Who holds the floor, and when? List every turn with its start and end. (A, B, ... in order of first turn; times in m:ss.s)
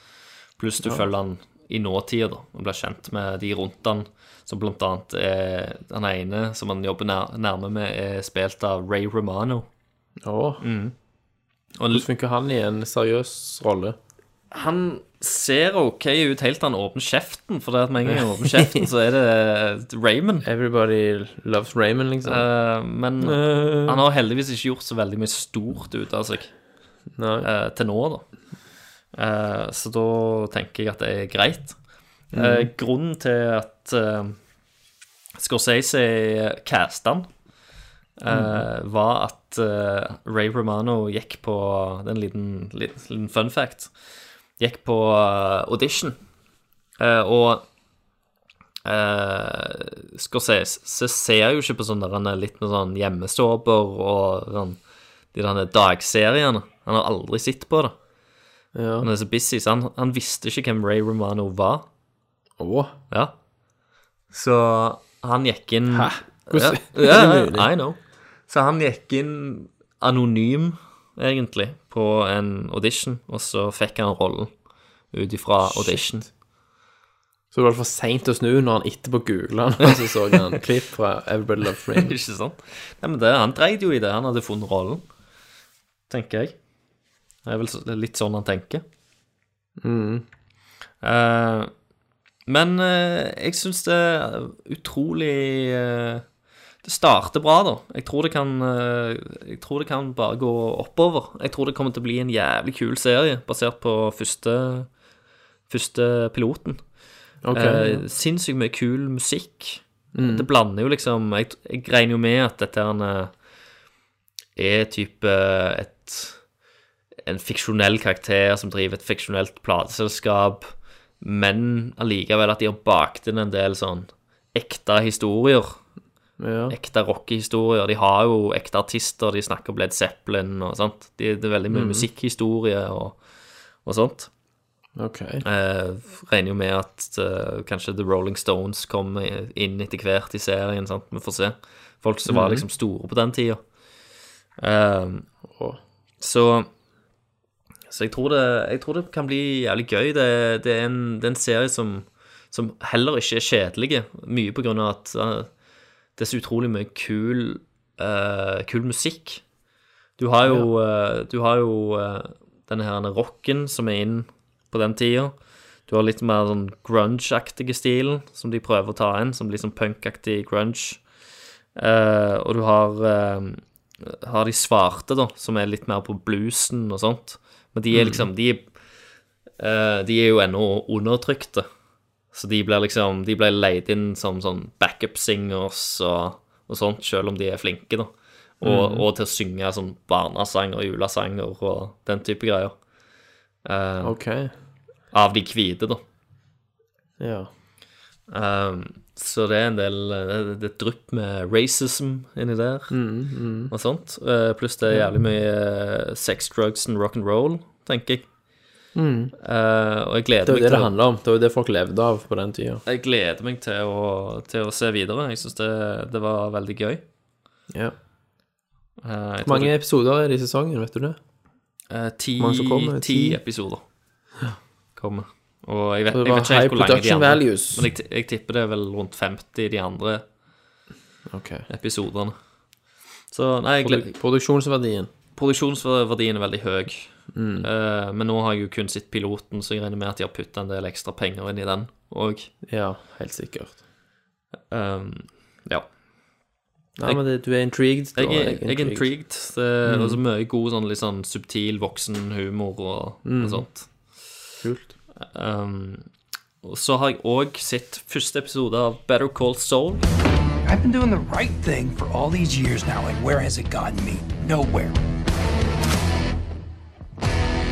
0:00.6-0:09.7 A
0:10.2-0:10.6 B
0:10.6-0:10.9 A
0:11.8-0:12.0 A
0:11.9-0:14.0 B
0:14.5-0:20.4 A
0:18.1-0:18.8 B
0:20.4-0:22.5 B
0:22.2-0:26.5 A
0:23.2-0:24.0 B
0:27.2-0:27.5 B
0:27.4-0:28.2 A
0:29.1-0:31.8 A
0:32.3-0:32.7 B
0:32.3-0:34.4 A
0:35.4-0:37.3 A
0:38.2-0:43.9 A
0:38.3-0:38.6 B
0:44.6-0:46.2 A
0:47.0-0:47.6 A
0:48.8-0:54.8 A
0:55.3-0:57.9 A
0:58.7-0:59.1 B
0:59.0-1:01.8 A
1:02.6-1:02.9 B
1:04.3-1:14.5 A
1:05.9-1:07.7 B
1:15.1-1:16.3 A
1:15.6-1:16.2 B
1:17.5-1:22.1 B
1:19.8-1:20.5 A
1:21.9-1:25.0 A
1:26.1-1:26.6 A
1:27.4-1:28.8 A
1:29.8-1:30.2 B
1:31.0-1:31.7 A
1:32.5-1:36.2 A
1:36.8-1:44.9 A
1:45.7-1:46.8 A
1:47.4-1:48.0 B
1:47.5-1:53.3 A
1:50.1-1:50.5 B
1:54.6-1:56.4 A
1:57.2-2:05.8 A
2:06.4-2:06.8 B
2:06.7-2:13.2 A
2:11.7-2:12.1 B
2:13.8-2:14.3 A
2:15.0-2:15.4 B
2:15.4-2:23.6 A
2:22.3-2:22.6 B
2:24.6-2:25.2 A
2:25.5-2:25.8 B
2:26.2-2:26.7 A
2:27.9-2:35.5 A
2:36.2-2:39.4 A
2:40.2-2:45.3 A
2:40.4-2:40.7 B
2:45.9-2:51.0 A
2:51.7-2:58.7 A
2:57.9-2:58.2 B
2:59.6-3:01.7 A
3:02.3-3:12.8 A
3:08.6-3:09.0 B
3:13.6-3:14.2 A
3:14.0-3:14.5 B
3:15.1-3:16.0 A
3:17.2-3:17.5 B
3:18.3-3:22.9 A
3:22.9-3:23.7 B
3:23.7-3:28.2 A
3:28.9-3:29.3 B
3:29.4-3:30.9 A
3:30.4-3:32.8 B
3:32.8-3:37.0 A
3:39.0-3:39.7 A
3:39.4-3:41.2 B
3:41.9-3:43.8 A
3:42.4-3:43.4 B
3:45.0-3:50.2 A
3:46.1-3:47.9 B
3:51.3-3:51.6 B
3:51.7-3:52.3 A
3:53.3-3:54.1 A
3:53.8-3:55.1 B
3:55.3-4:02.5 A
3:57.3-3:57.7 B
4:02.6-4:03.8 B
4:04.7-4:05.9 A
4:07.0-4:09.1 B
4:08.2-4:13.9 A
4:09.8-4:10.2 B
4:13.2-4:13.6 B
4:14.6-4:15.0 B
4:15.2-4:16.1 A
4:16.6-4:20.0 A
4:20.6-4:25.0 C